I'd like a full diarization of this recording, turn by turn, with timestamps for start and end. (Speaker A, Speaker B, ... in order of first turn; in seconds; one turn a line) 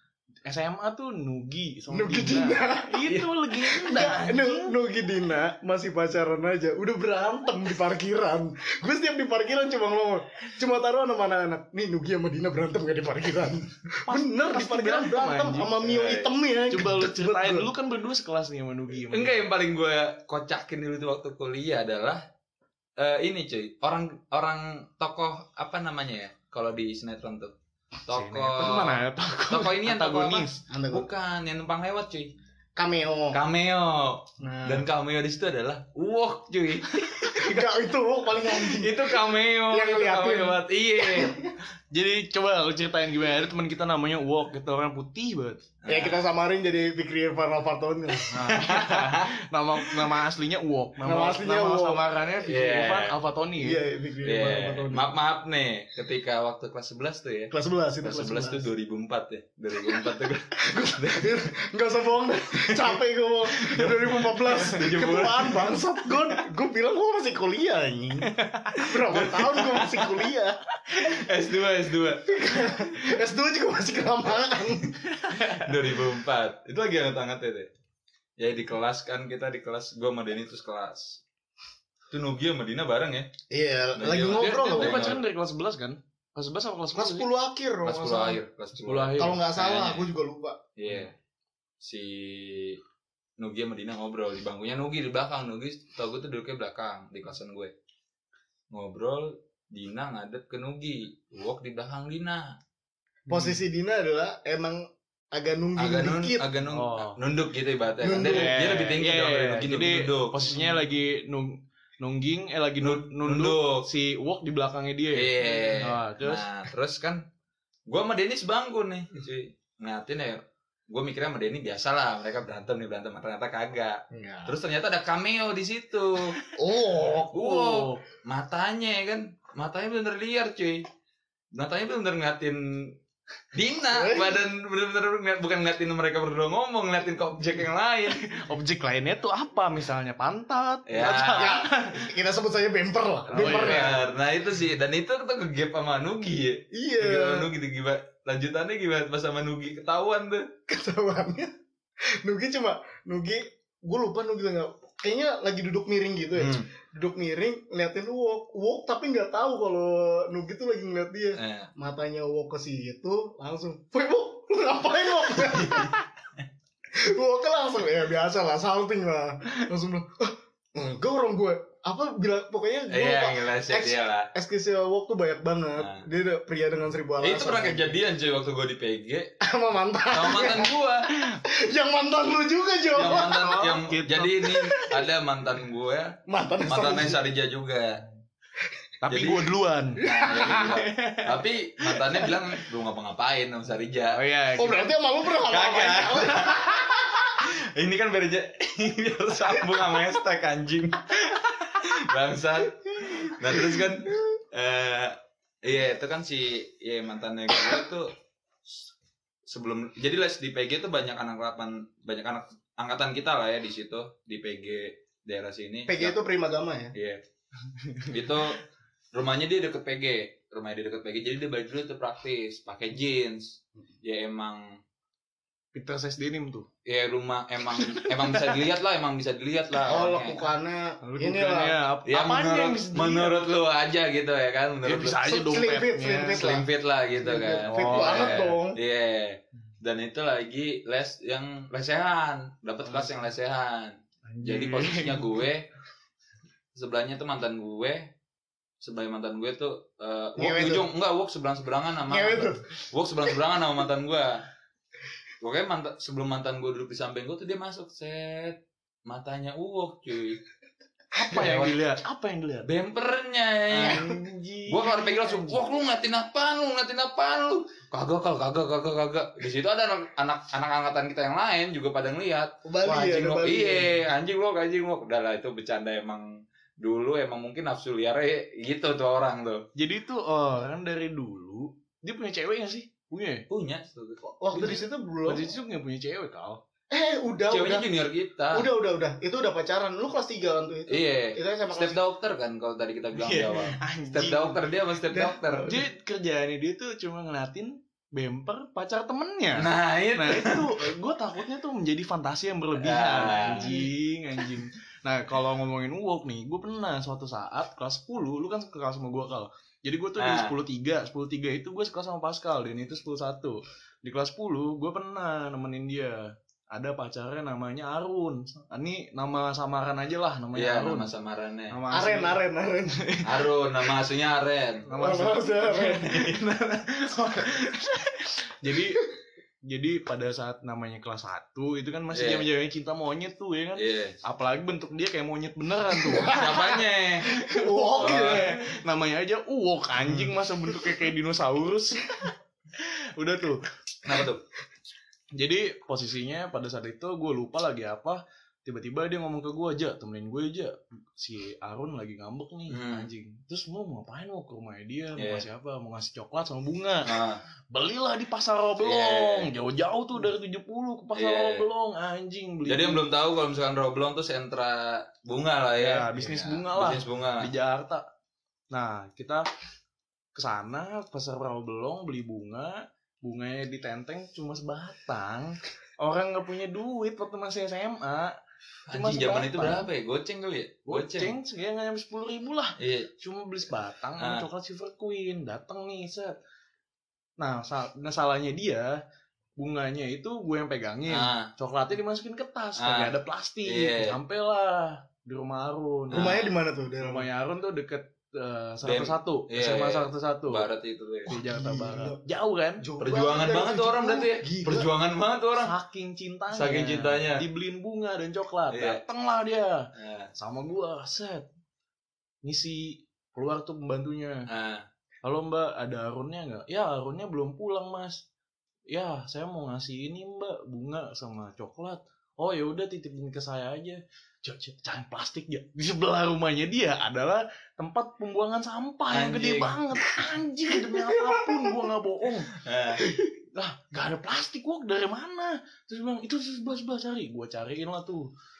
Speaker A: 0.5-4.8
Speaker B: 1.9-3.1
Speaker B: 3.8-17.7
Speaker A: 14.1-15.7
Speaker C: 15.6-16.3
Speaker A: 16.7-19.4
Speaker C: 19.1-22.2
Speaker C: 23.0-27.5
Speaker C: 28.1-32.3
Speaker A: 28.1-30.6
Speaker B: 30.7-31.1
Speaker B: 32.8-33.4
Speaker C: 33.3-37.6
Speaker B: 34.4-34.9
Speaker B: 37.3-41.5
Speaker C: 38.4-41.5
Speaker A: 41.9-45.6
Speaker C: 45.8-46.2
Speaker B: 45.9-48.5
Speaker A: 48.3-53.8
Speaker C: 48.3-49.3
Speaker B: 51.0-52.0
Speaker C: 52.4-53.1
Speaker B: 53.6-55.2
Speaker C: 54.2-61.4
Speaker B: 57.5-58.6
Speaker B: 59.9-68.3
Speaker C: 63.6-66.4
Speaker A: 68.2-68.8
Speaker C: 68.8-70.2
Speaker B: 68.8-70.6
Speaker C: 70.9-72.3
Speaker B: 72.2-74.9
Speaker A: 75.1-75.7
Speaker C: 75.3-77.7
Speaker C: 78.4-81.2
Speaker C: 82.1-83.3
Speaker B: 83.5-85.2
Speaker C: 83.9-85.2
Speaker A: 84.3-87.3
Speaker B: 86.9-88.4
Speaker C: 87.8-90.1
Speaker A: 88.8-89.4
Speaker B: 89.2-90.6
Speaker C: 90.8-91.1
Speaker C: 91.8-92.8
Speaker C: 93.4-97.7
Speaker C: 98.7-102.6
Speaker B: 103.3-106.4
Speaker A: 103.3-103.6
Speaker C: 105.8-110.5
Speaker A: 106.7-107.2
Speaker B: 108.0-108.6
Speaker A: 108.1-116.5
Speaker C: 112.8-113.9
Speaker C: 115.1-117.2
Speaker C: 117.9-126.4
Speaker B: 124.1-124.5
Speaker B: 126.5-127.3
Speaker A: 127.2-128.0
Speaker C: 127.3-130.8
Speaker C: 131.5-132.9
Speaker C: 133.5-138.2
Speaker B: 133.9-134.4
Speaker A: 138.2-142.1
Speaker C: 140.9-141.6
Speaker B: 141.3-144.0
Speaker A: 143.3-144.0
Speaker C: 143.3-150.5
Speaker B: 146.7-147.5
Speaker B: 150.7-151.5
Speaker B: 152.2-166.0
Speaker C: 156.4-156.7
Speaker C: 161.4-161.7
Speaker C: 165.5-165.9
Speaker B: 166.9-178.0
Speaker C: 172.9-174.3
Speaker C: 175.8-176.1
Speaker C: 177.2-179.3
Speaker B: 179.4-180.8
Speaker C: 180.1-181.1
Speaker B: 181.4-183.5
Speaker C: 182.9-188.0
Speaker A: 183.0-184.6
Speaker B: 186.3-187.2
Speaker A: 189.0-192.3
Speaker C: 189.1-194.2
Speaker B: 190.0-190.8
Speaker A: 194.1-194.9
Speaker B: 194.6-196.9
Speaker C: 195.4-208.1
Speaker C: 209.4-216.1
Speaker B: 215.9-216.9
Speaker C: 216.9-217.2
Speaker A: 217.6-218.3
Speaker C: 218.1-218.6
Speaker C: 219.1-224.8
Speaker A: 225.7-226.7
Speaker C: 226.8-230.5
Speaker A: 227.7-228.6
Speaker B: 229.8-231.8
Speaker A: 231.0-233.4
Speaker C: 232.1-235.2
Speaker A: 234.8-236.4
Speaker B: 235.2-236.7
Speaker C: 236.3-245.7
Speaker B: 237.2-238.8
Speaker A: 237.7-238.4
Speaker A: 244.3-245.4
Speaker C: 246.7-248.1
Speaker C: 248.8-254.4
Speaker B: 250.4-250.9
Speaker B: 252.1-252.6
Speaker C: 255.4-260.4
Speaker A: 261.1-262.7
Speaker C: 261.3-261.8
Speaker C: 262.6-264.1
Speaker A: 263.7-265.6
Speaker B: 263.8-264.2
Speaker C: 264.7-279.7
Speaker B: 272.6-273.9
Speaker A: 279.8-283.4
Speaker C: 283.5-284.8
Speaker B: 284.2-285.5
Speaker A: 285.2-286.6
Speaker B: 286.9-287.9
Speaker C: 287.5-288.7
Speaker B: 288.5-292.0
Speaker C: 290.9-295.8
Speaker A: 293.1-294.6
Speaker B: 295.1-295.8
Speaker A: 295.7-321.1
Speaker C: 299.6-300.9
Speaker C: 302.8-303.8
Speaker B: 303.5-303.8
Speaker C: 310.2-310.5
Speaker C: 320.5-321.8
Speaker A: 321.7-322.4
Speaker B: 321.9-323.0
Speaker A: 322.9-323.4
Speaker C: 323.2-324.9
Speaker A: 324.9-329.0
Speaker B: 324.9-326.1
Speaker C: 325.8-326.4
Speaker A: 329.6-336.6
Speaker C: 332.1-332.5
Speaker C: 333.8-334.2
Speaker B: 336.0-336.7
Speaker C: 336.3-337.3
Speaker A: 337.2-343.6
Speaker B: 337.5-338.5
Speaker C: 338.0-338.5
Speaker C: 340.0-340.3
Speaker C: 344.0-344.4
Speaker A: 345.3-357.2
Speaker C: 352.7-353.1
Speaker C: 355.1-355.4
Speaker C: 357.0-357.4
Speaker A: 357.7-363.1
Speaker C: 358.8-359.5
Speaker C: 361.1-361.6
Speaker C: 362.6-367.5
Speaker A: 365.8-368.0
Speaker A: 368.7-369.5
Speaker A: 370.3-378.4
Speaker C: 378.9-381.3
Speaker A: 378.9-379.9
Speaker A: 380.9-386.3
Speaker C: 382.8-383.1
Speaker C: 384.2-384.4
Speaker A: 387.4-388.9
Speaker A: 389.6-396.3
Speaker C: 391.1-391.5
Speaker C: 392.8-393.1
Speaker C: 393.6-394.2
Speaker C: 396.1-396.5
Speaker B: 396.1-397.3
Speaker A: 397.0-400.7
Speaker C: 398.8-401.3
Speaker A: 401.3-402.9
Speaker B: 401.3-402.2
Speaker B: 402.8-404.9
Speaker C: 403.0-405.7
Speaker A: 405.6-411.5
Speaker C: 406.5-407.4
Speaker C: 408.7-409.0
Speaker C: 409.9-410.3
Speaker A: 412.4-414.5
Speaker C: 414.5-414.9
Speaker A: 415.2-418.2
Speaker A: 418.9-432.5
Speaker C: 429.1-429.8
Speaker B: 431.1-431.8
Speaker C: 432.5-433.0
Speaker B: 433.0-433.3
Speaker A: 433.5-438.3